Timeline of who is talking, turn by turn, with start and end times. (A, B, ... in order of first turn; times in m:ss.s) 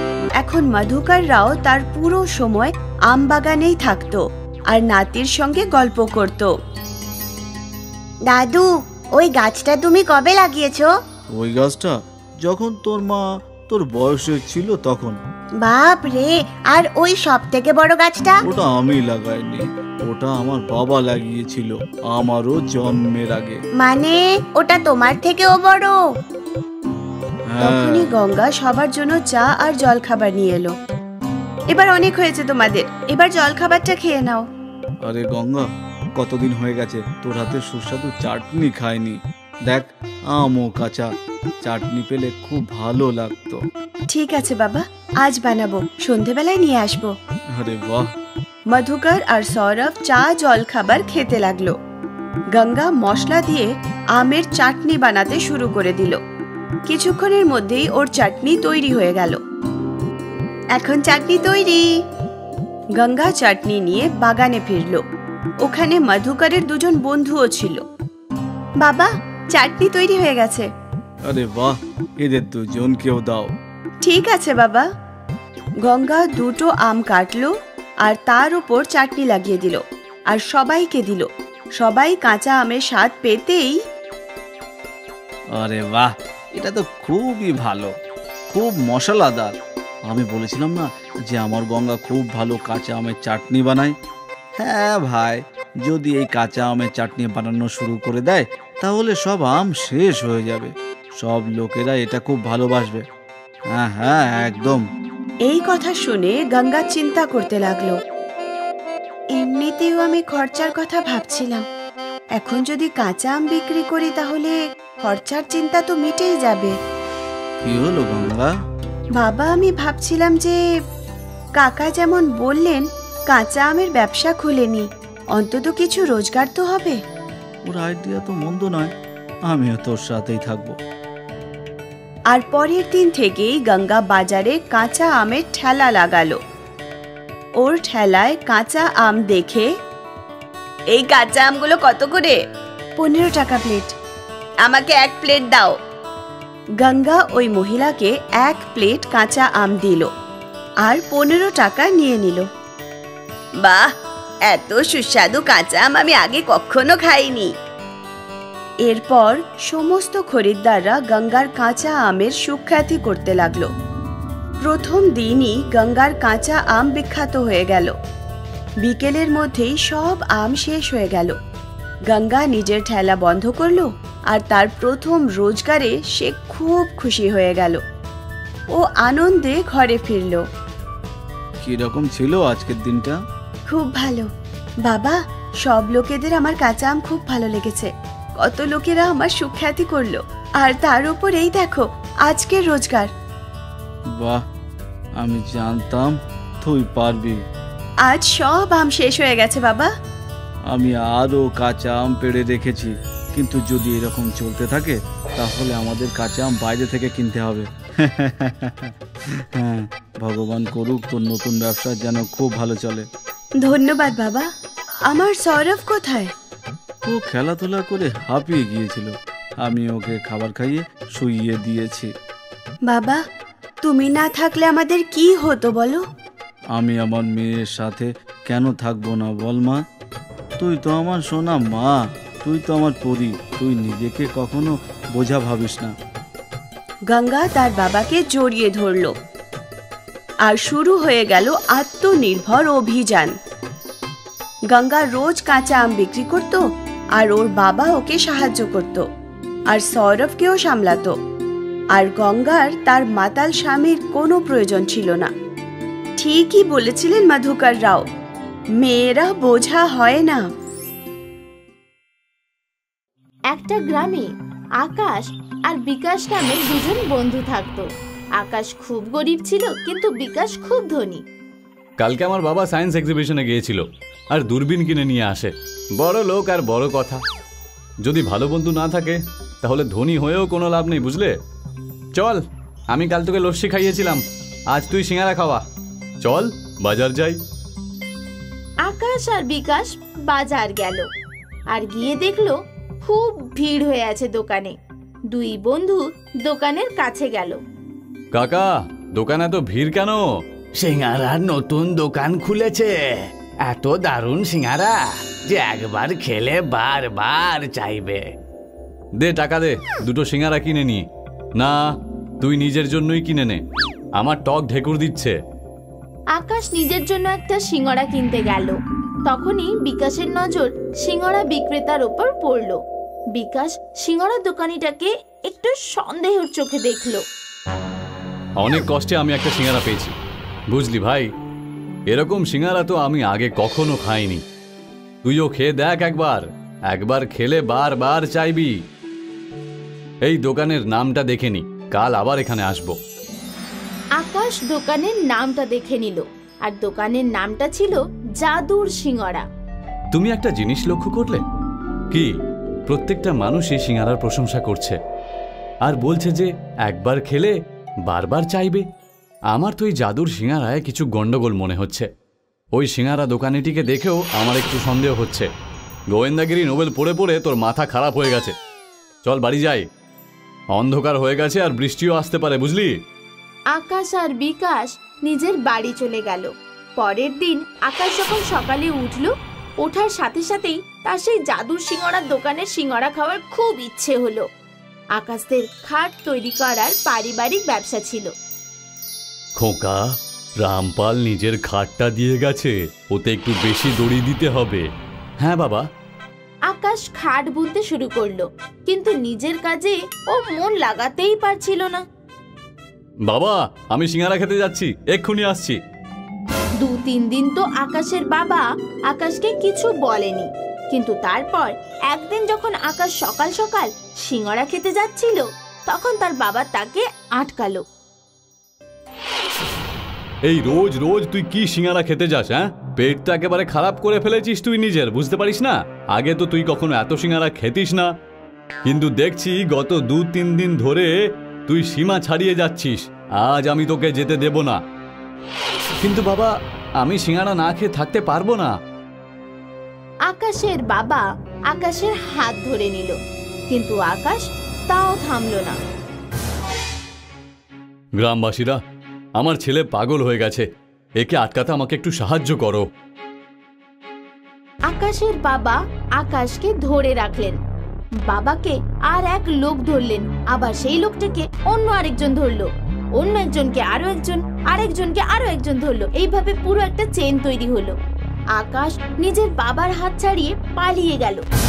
0:00.4-0:06.5 A
0:08.3-0:10.9 B
0:11.3-0:15.2 C
0:15.6-0:18.4 B
0:18.4-0:23.6 C
0:23.8-0:26.0 B
0:27.5-0:28.1 C
0:27.6-0:30.8 A
0:31.7-0:34.5 A
0:35.0-0:43.6 C
0:44.1-0:47.2 A
0:47.6-0:48.1 C
0:48.7-0:51.8 A
0:52.5-0:56.2 A
0:56.9-0:59.4 A
1:00.7-1:02.0 A
1:03.0-1:05.0 A
1:05.6-1:07.8 A
1:08.8-1:10.7 A
1:11.3-1:13.5 C
1:14.0-1:14.9 A
1:15.8-1:23.8 A
1:25.6-1:27.9 C
1:28.5-1:29.5 C
1:30.1-1:34.0 C
1:34.6-1:43.0 C
1:43.8-1:44.8 C
1:45.5-1:48.0 A
1:49.3-1:51.7 A
1:52.4-1:56.8 A
1:57.6-1:58.5 C
1:59.2-2:00.6 A
2:01.6-2:07.0 A
2:07.7-2:08.9 C
2:09.5-2:10.8 C
2:12.3-2:16.4 A
2:17.6-2:19.7 A
2:20.9-2:22.4 A
2:23.0-2:24.0 A
2:24.6-2:25.8 A
2:26.8-2:30.1 A
2:30.8-2:32.5 A
2:33.6-2:34.0 A
2:34.5-2:37.5 A
2:38.8-2:43.7 A
2:44.6-2:48.0 A
2:48.8-2:51.4 A
2:52.1-2:57.8 A
2:58.7-3:00.5 A
3:01.6-3:03.2 C
3:03.7-3:04.3 A
3:04.8-3:13.1 A
3:14.2-3:14.4 C
3:15.2-3:17.4 C
3:18.0-3:19.9 A
3:20.7-3:33.1 C
3:33.6-3:34.5 A
3:35.1-3:36.3 A
3:37.1-3:42.1 C
3:42.9-3:43.2 A
3:43.8-3:46.0 A
3:46.8-3:49.8 C
3:50.6-3:55.9 C
3:57.1-3:59.2 A
4:00.5-4:03.4 A
4:04.7-4:06.6 A
4:07.2-4:09.0 A
4:09.7-4:11.2 A
4:11.9-4:15.3 A
4:16.2-4:18.0 A
4:18.8-4:20.5 A
4:23.5-4:24.3 D
4:24.8-4:31.2 D
4:32.0-4:37.2 E
4:38.0-4:41.3 E
4:42.2-4:45.6 E
4:46.2-4:47.4 E
4:48.9-4:51.1 D
4:51.7-4:54.8 D
4:55.3-4:57.6 D
4:58.3-5:00.2 E
5:00.8-5:03.0 F
5:03.7-5:08.2 F
5:09.2-5:11.0 E
5:12.4-5:13.6 E
5:14.2-5:15.4 E
5:16.4-5:18.8 D
5:19.3-5:22.8 D
5:23.4-5:27.2 D
5:28.6-5:30.1 E
5:30.7-5:31.3 E
5:32.1-5:34.4 E
5:35.2-5:38.8 E
5:40.3-5:43.0 E
5:44.2-5:49.4 D
5:50.1-5:51.4 E
5:52.9-5:55.0 E
5:55.9-5:57.5 E
5:58.1-5:58.8 E
5:59.5-6:02.1 E
6:02.8-6:05.5 E
6:06.1-6:08.6 E
6:09.2-6:09.8 E
6:10.8-6:12.9 E
6:13.7-6:24.5 D
6:25.2-6:28.3 D
6:29.6-6:30.0 E
6:30.6-6:34.9 E
6:35.4-6:35.8 E
6:36.7-6:42.0 D
6:43.3-6:45.8 E
6:46.8-6:57.8 D
7:00.5-7:08.1 E
7:08.9-7:11.1 E
7:11.7-7:14.8 E
7:16.0-7:18.7 E
7:20.3-7:23.2 D
7:23.7-7:25.8 D
7:28.2-7:28.8 E
7:29.4-7:30.7 E
7:31.2-7:32.9 E
7:34.9-7:37.6 D
7:38.2-7:48.0 D
7:48.6-7:51.4 D